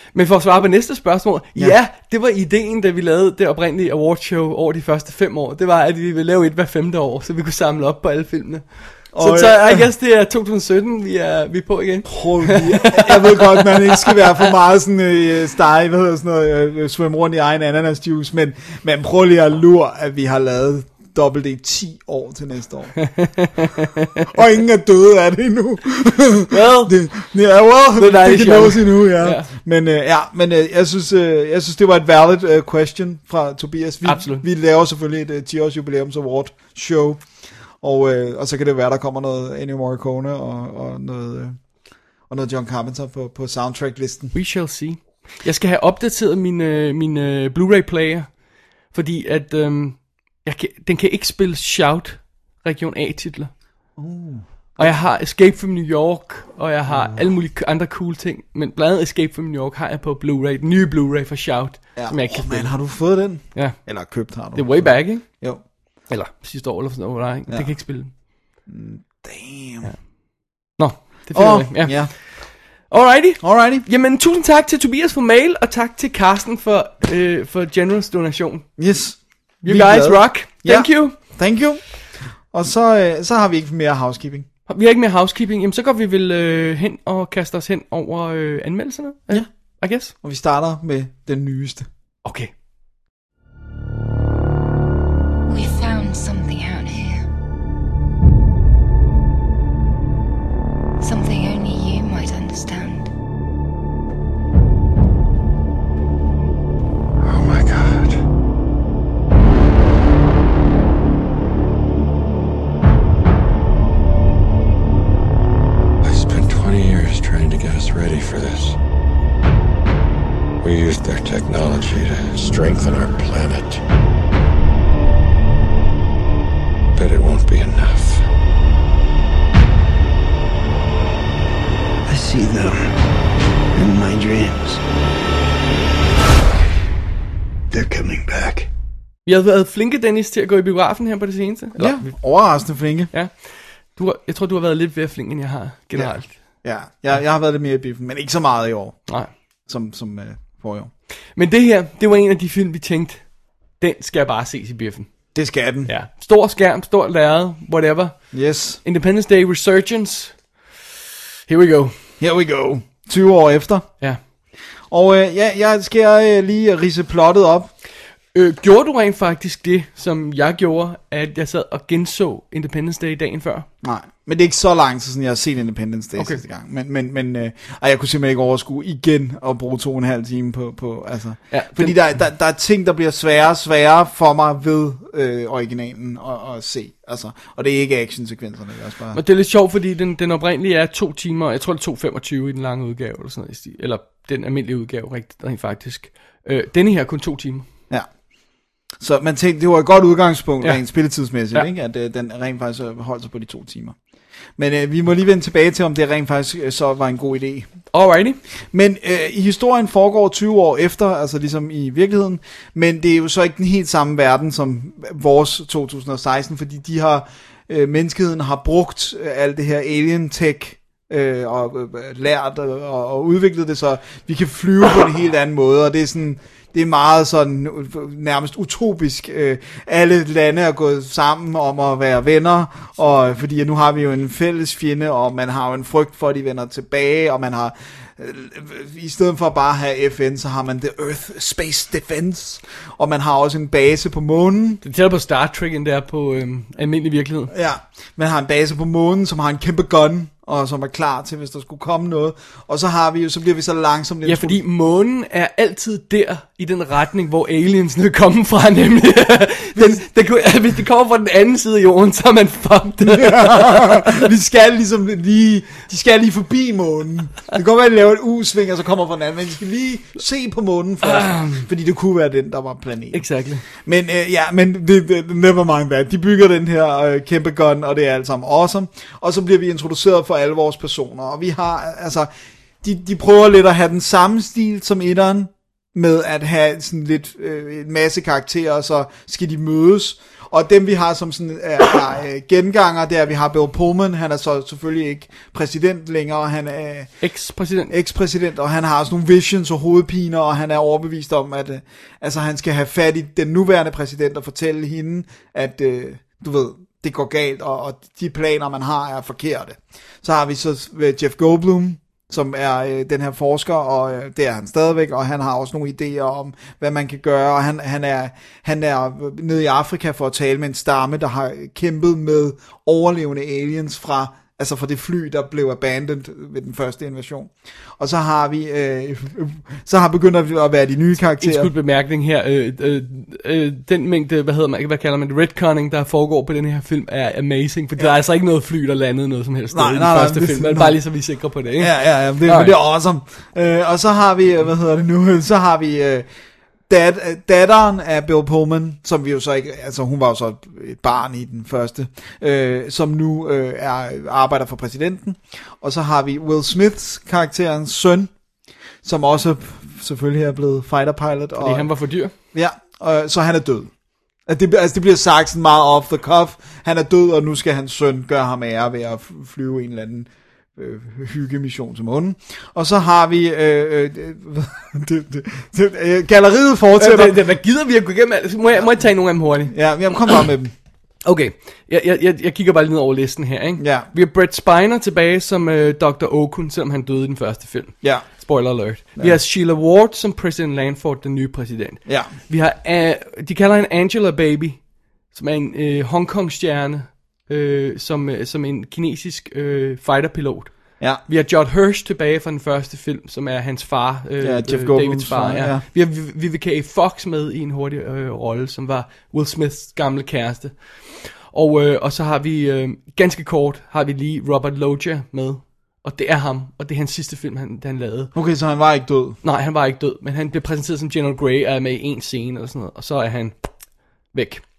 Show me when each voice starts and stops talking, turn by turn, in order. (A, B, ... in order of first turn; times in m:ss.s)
0:00.1-0:14.4 A
0:09.1-0:09.9 B
0:12.1-0:23.0 B
0:23.0-0:24.2 A
0:24.3-0:41.6 B
0:26.5-0:27.1 A
0:28.0-0:29.5 A
0:34.0-0:34.4 A
0:42.3-0:44.3 B
0:44.3-0:48.4 A
0:48.9-0:53.5 A
0:54.0-0:55.0 B
0:54.8-1:03.0 A
0:56.9-0:57.3 B
1:02.0-1:05.6 B
1:03.5-1:05.5 A
1:06.1-1:08.1 A
1:07.5-1:07.8 B
1:08.6-1:09.9 B
1:09.8-1:18.7 A
1:11.3-1:12.1 B
1:13.4-1:13.9 B
1:18.8-1:24.5 B
1:19.6-1:21.2 A
1:24.7-1:30.1 A
1:30.0-1:31.9 B
1:32.2-1:32.5 A
1:35.5-1:37.2 C
1:41.0-1:43.1 C
1:47.2-1:48.2 D
1:56.0-1:58.8 D
2:00.6-2:03.8 D
2:07.0-2:08.3 D
2:12.1-2:12.9 E
2:13.8-2:14.8 E
2:17.7-2:18.7 E
2:19.2-2:22.1 A
2:21.8-2:23.1 B
2:23.1-2:26.4 A
2:25.9-2:29.1 B
2:29.7-2:30.9 B
2:31.4-2:35.2 A
2:35.3-2:35.9 B
2:35.8-2:40.4 A
2:38.3-2:38.8 B
2:41.5-2:42.0 A
2:42.2-2:43.9 B
2:44.9-2:47.7 B
2:48.3-2:53.7 A
2:53.8-3:09.2 B
3:01.5-3:02.0 A
3:09.1-3:17.7 A
3:19.0-3:24.0 B
3:24.6-3:27.7 B
3:27.9-3:28.4 A
3:28.7-4:04.8 B
4:04.8-4:07.5 A
4:07.5-4:14.6 B
4:14.2-4:24.2 A
4:19.8-4:20.0 B
4:23.1-4:42.3 B
4:31.1-4:31.6 A
4:33.1-4:33.6 A
4:42.8-4:57.3 B
4:57.2-4:57.9 A
4:57.9-5:31.7 B
5:31.4-5:42.8 A
5:39.7-5:41.0 B
5:41.8-5:46.3 B
5:46.9-5:58.3 B
5:59.0-6:01.9 B
6:01.6-6:02.3 A
6:02.4-6:03.9 B
6:04.5-6:17.5 B
6:17.0-6:20.4 A
6:18.8-6:20.7 B
6:21.2-6:58.3 A
6:23.8-6:24.1 B
6:28.0-6:29.4 B
6:32.1-6:32.3 B
6:44.4-6:45.8 B
6:58.3-6:59.4 B
6:59.4-7:04.6 A